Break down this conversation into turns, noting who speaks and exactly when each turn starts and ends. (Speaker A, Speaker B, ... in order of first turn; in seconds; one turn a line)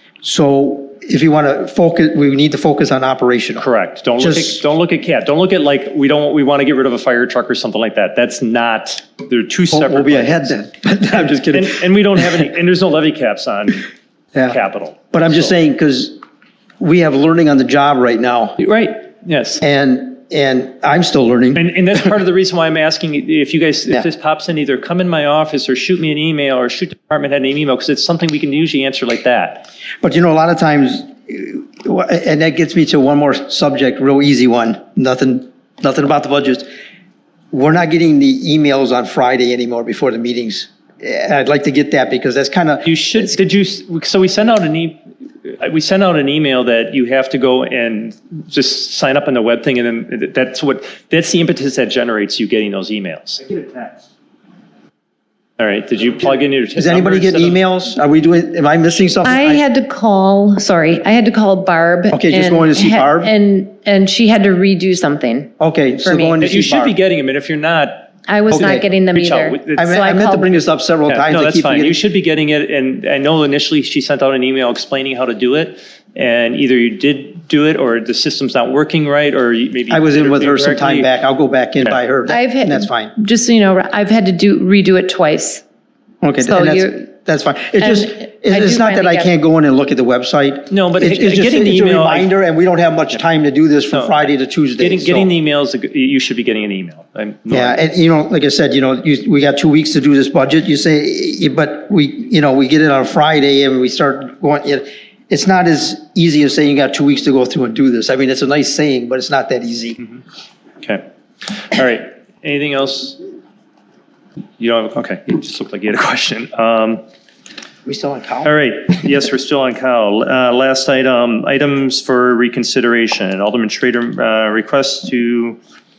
Speaker A: 0.2-3.7
Speaker B: 3.6-10.6
Speaker A: 4.2-4.6
Speaker A: 9.7-12.4
Speaker B: 11.1-13.8
Speaker A: 14.3-14.6
Speaker B: 14.5-15.5
Speaker A: 15.1-16.2
Speaker A: 16.8-18.6
Speaker B: 18.6-19.6
Speaker A: 19.6-21.6
Speaker B: 21.6-29.7
Speaker A: 30.0-36.7
Speaker A: 37.5-43.3
Speaker B: 42.8-53.6
Speaker B: 55.6-57.6
Speaker A: 56.7-59.6
Speaker C: 59.2-66.4
Speaker A: 62.1-63.3
Speaker A: 65.6-66.9
Speaker B: 66.4-68.1
Speaker C: 68.3-70.6
Speaker A: 68.5-68.8
Speaker B: 69.1-69.9
Speaker A: 69.8-72.0
Speaker B: 71.1-81.1
Speaker A: 79.9-83.1
Speaker C: 82.3-85.6
Speaker A: 86.2-95.3
Speaker C: 86.4-87.1
Speaker C: 87.8-89.3
Speaker B: 90.7-92.3
Speaker B: 93.9-97.8
Speaker A: 97.5-110.0
Speaker B: 110.8-113.2
Speaker B: 114.6-117.0
Speaker A: 117.8-118.5
Speaker B: 118.4-125.6